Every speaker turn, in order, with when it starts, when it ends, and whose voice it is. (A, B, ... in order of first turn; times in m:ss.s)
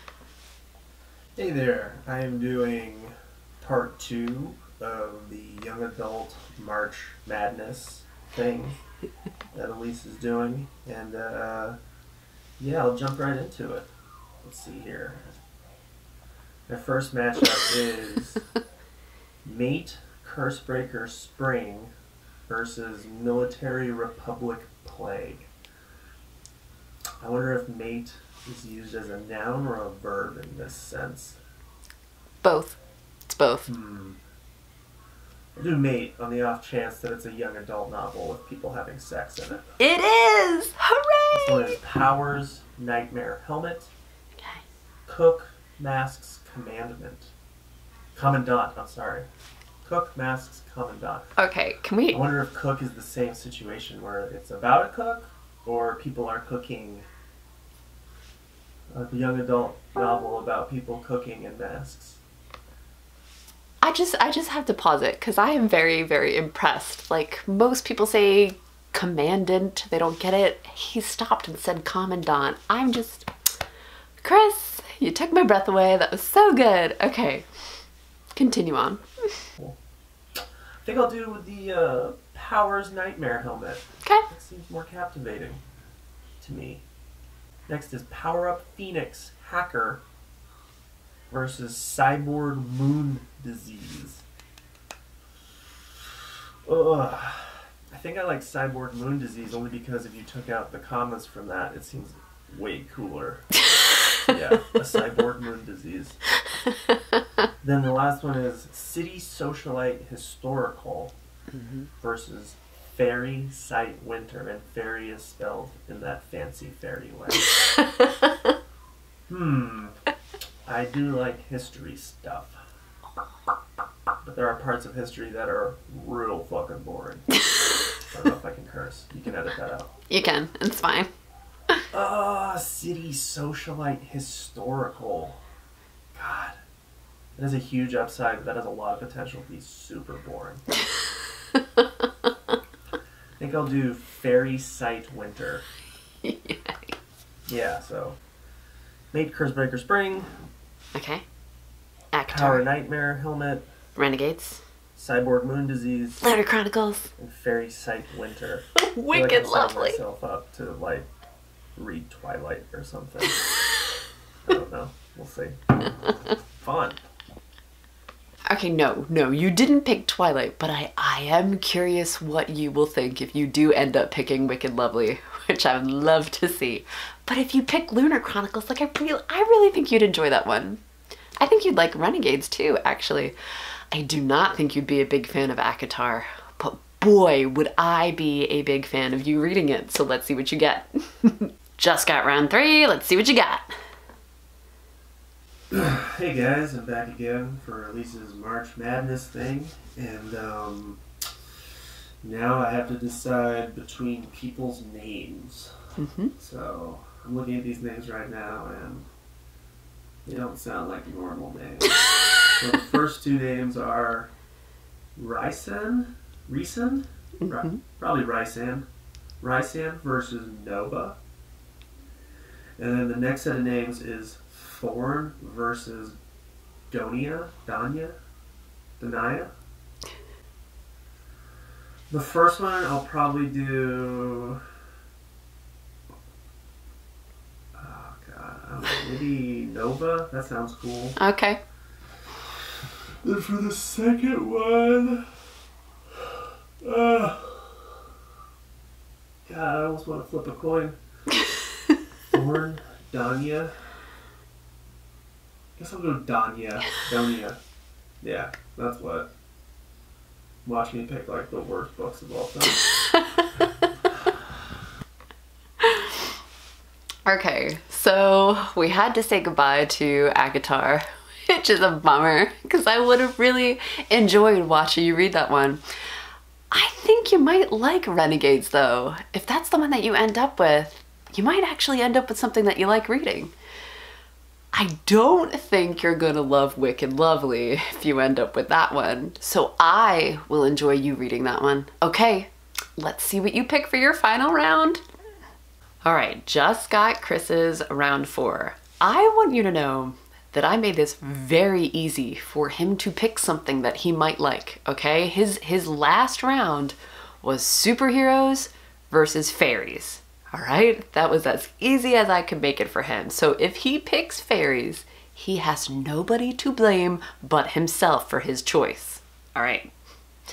0:01.4-0:08.8 A
0:09.5-0:11.8 A
0:12.6-0:13.9 A
0:14.4-0:15.4 A
0:16.7-0:18.4 A
0:19.4-0:21.9 A
0:22.5-0:25.5 A
0:27.2-0:31.4 A
0:32.4-0:32.8 B
0:33.3-0:33.7 B
0:33.7-0:34.2 A
0:35.6-0:39.7 A
0:39.8-0:41.8 B
0:41.3-0:43.9 A
0:45.1-0:47.3 A
0:48.2-0:49.3 A
0:49.8-0:51.4 A
0:51.4-0:52.3 B
0:52.1-0:57.1 A
0:58.9-1:02.2 A
1:03.8-1:13.3 B
1:14.2-1:17.5 B
1:18.4-1:19.0 B
1:20.8-1:25.6 A
1:26.4-1:26.8 A
1:27.7-1:30.0 A
1:31.3-1:34.2 A
1:36.6-1:43.6 A
1:43.7-1:44.2 B
1:44.2-1:46.2 A
1:46.5-1:47.2 B
1:47.6-1:51.2 A
1:51.5-1:51.9 B
1:52.0-1:57.5 A
1:57.5-1:58.3 B
1:59.3-2:00.0 A
2:00.7-2:02.6 A
2:04.2-2:07.3 A
2:08.0-2:09.9 A
2:10.1-2:11.1 B
2:11.9-2:15.4 A
2:16.1-2:16.6 A
2:17.4-2:20.6 A
2:21.5-2:22.1 B
2:23.4-2:25.6 A
2:26.2-2:26.9 B
2:27.5-2:28.2 A
2:29.1-2:30.3 A
2:31.0-2:31.2 B
2:32.1-2:32.6 B
2:32.3-2:33.7 A
2:34.0-2:34.6 B
2:35.0-2:36.2 A
2:36.2-2:37.1 B
2:37.2-2:41.1 A
2:38.8-2:40.0 B
2:41.8-2:43.5 A
2:44.5-2:45.6 A
2:46.5-2:47.0 A
2:48.5-3:00.8 B
3:01.4-3:03.4 B
3:03.9-3:13.6 B
3:15.7-3:21.0 A
3:22.2-3:25.7 A
3:26.0-3:26.3 B
3:26.4-3:29.1 A
3:30.2-3:32.0 A
3:32.6-3:34.3 A
3:35.2-3:38.9 A
3:37.4-3:37.8 B
3:39.4-3:41.2 A
3:42.8-3:46.2 A
3:46.9-3:48.1 A
3:49.0-3:49.5 A
3:52.1-3:54.6 A
3:57.8-4:01.2 A
4:01.2-4:01.6 B
4:03.2-4:05.3 A
4:06.2-4:08.0 A
4:09.4-4:11.0 A
4:12.3-4:13.7 A
4:15.8-4:17.6 A
4:18.2-4:19.3 A
4:20.6-4:22.9 A
4:22.8-4:23.8 B
4:25.8-4:26.2 B
4:27.2-4:35.8 B
4:36.7-4:43.5 B
4:44.7-4:55.0 B
4:56.0-5:19.9 B